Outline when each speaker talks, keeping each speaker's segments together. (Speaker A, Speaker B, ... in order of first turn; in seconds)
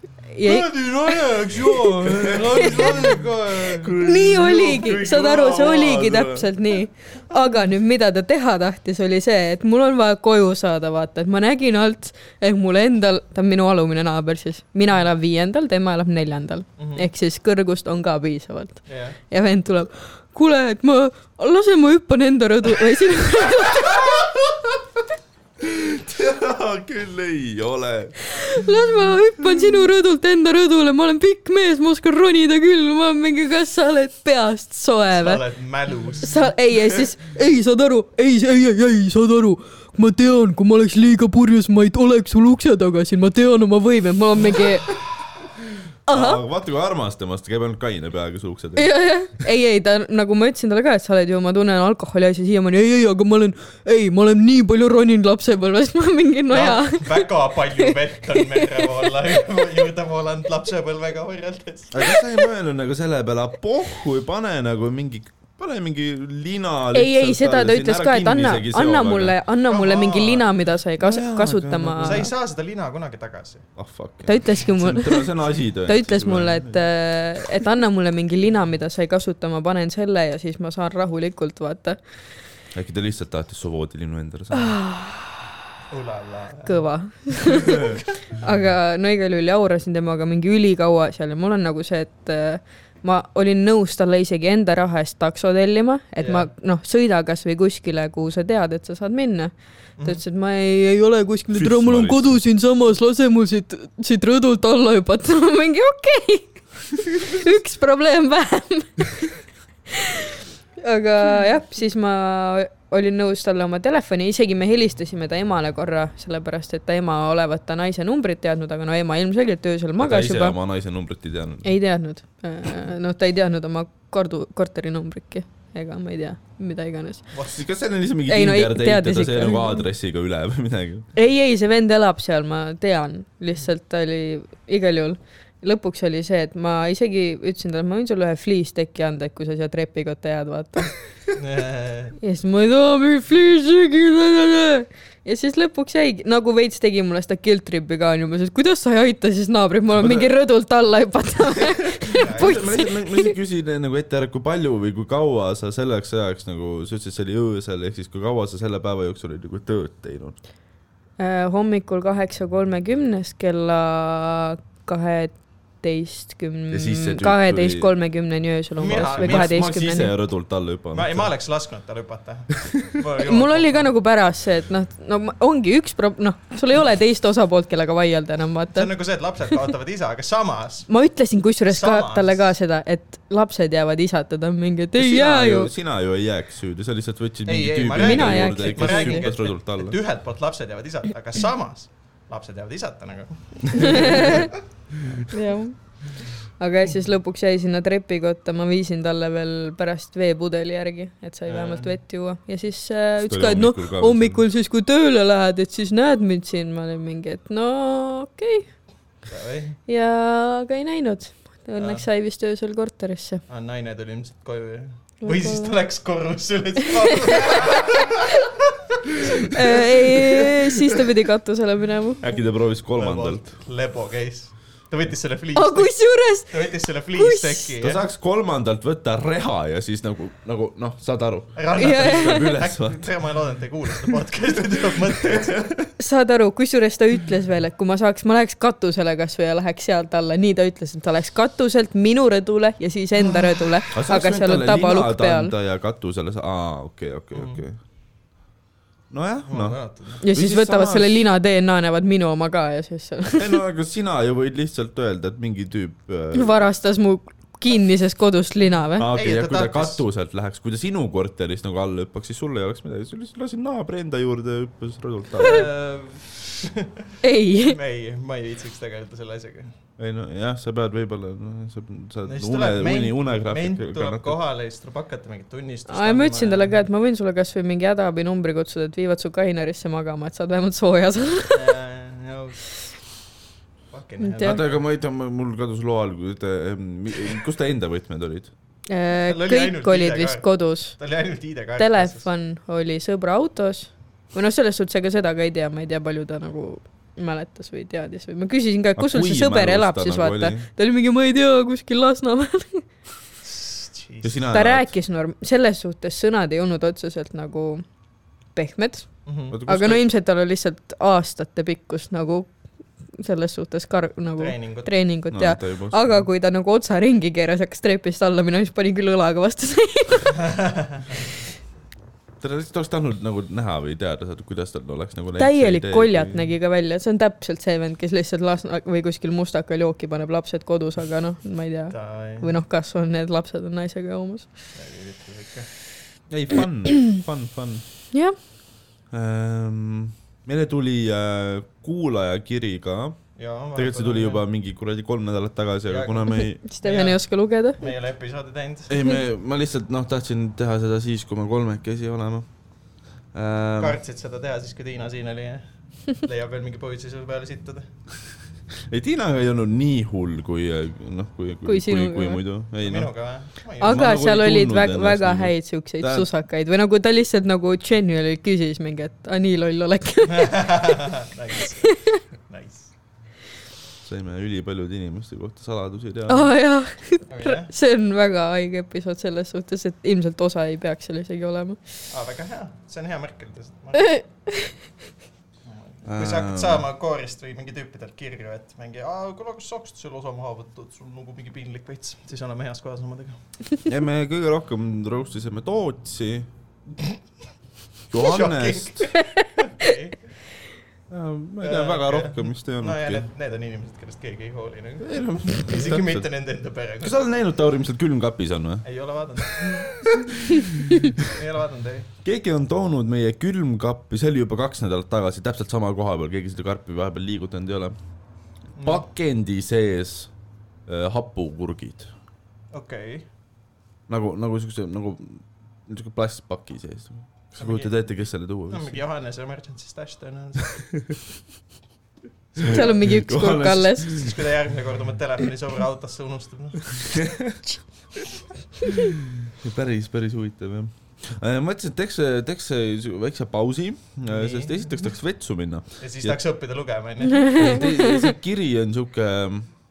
Speaker A: 0.3-1.1, 2.6-3.0, 4.0-24.2, 28.3-35.4, 36.2-44.9, 46.1-46.4, 48.8-58.9, 66.9-72.3, 74.3-75.3, 75.9-82.0, 84.5-85.1, 86.7-109.3, 109.9-110.3, 110.8-120.6, 121.6-127.3, 128.3-129.8, 131.2-140.9, 142.2-153.3, 161.2-170.1, 173.2-178.9, 180.9-185.7, 188.0-189.3, 193.8-194.5, 195.3-208.7, 209.9-213.4, 215.2-215.8, 217.0-217.6, 219.4-222.3, 225.6-227.7, 231.8-232.5, 236.0-245.5, 250.2-253.6, 256.3-259.1, 267.2-267.8, 275.9-281.7, 284.2-284.6, 288.9-291.0, 291.8-302.9, 304.5-307.9, 308.5-320.4, 325.4-334.5, 346.6-347.8, 361.6-362.4, 363.8-370.9, 371.8-372.2, 376.3-381.8, 383.9-384.8, 399.1-399.9, 432.7-434.3, 447.3-448.3
Speaker B: 0.5-6.5, 23.7-24.8, 25.6-28.2, 46.1-48.9, 61.9-69.4, 71.0-72.3, 73.8-76.9, 82.7-84.8, 101.5-102.4, 120.0-121.8, 127.5-131.1, 149.9-150.3, 152.1-160.4, 166.7-167.9, 168.8-171.3, 185.0-190.0, 203.2-204.4, 222.2-223.5, 227.8-233.1, 235.0-235.9, 243.9-247.8, 249.1-251.2, 253.3-256.5, 259.0-265.7, 270.0-274.4, 284.4-288.5, 299.0-300.7, 304.2-304.9, 309.5-310.0, 315.3-316.2, 322.4-326.5, 336.3-337.9, 339.1-343.2, 343.8-346.6, 348.9-352.5, 353.3-354.0, 358.9-363.1, 363.8-366.3, 374.0-376.5, 386.1-386.9, 393.9-396.5, 398.1-399.1, 401.1-403.2, 405.0-406.3, 407.0-408.9, 409.4-411.2, 412.2-418.0, 418.8-420.3, 420.9-422.1, 424.1-429.0, 432.6-434.3, 436.9-437.6, 438.9-446.4, 447.6-449.7
Speaker C: 0.5-4.0, 16.8-17.1, 18.9-19.2, 35.1-36.5, 56.5-62.1, 69.7-70.5, 72.0-73.7, 85.9-86.9, 96.2-96.5, 127.3-127.6, 141.3-142.2, 152.1-152.8, 168.8-169.6, 170.9-173.9, 178.8-180.9, 181.7-182.5, 187.5-194.5, 201.5-202.0, 209.3-209.8, 211.8-212.1, 213.5-219.8, 223.0-228.0, 231.6-235.7, 247.3-247.6, 249.5-250.2, 259.1-260.0, 265.4-267.1, 267.6-269.8, 272.2-276.8, 281.5-282.7, 283.9-284.8, 289.3-292.3, 303.4-304.4, 309.3-309.6, 314.4-314.9, 320.5-321.0, 331.9-332.5, 334.8-335.7, 343.4-344.4, 345.9-347.2, 347.8-348.9, 353.8-357.9, 362.8-364.1, 370.3-372.9, 377.3-377.7, 382.1-384.2, 385.7-393.4, 398.1-400.2, 401.6-407.4, 408.8-410.1, 411.1-412.1, 418.8-419.1, 422.7-423.3, 427.6-428.0, 428.7-430.8, 432.6-433.0, 434.1-437.1, 444.3-445.1, 446.0-447.8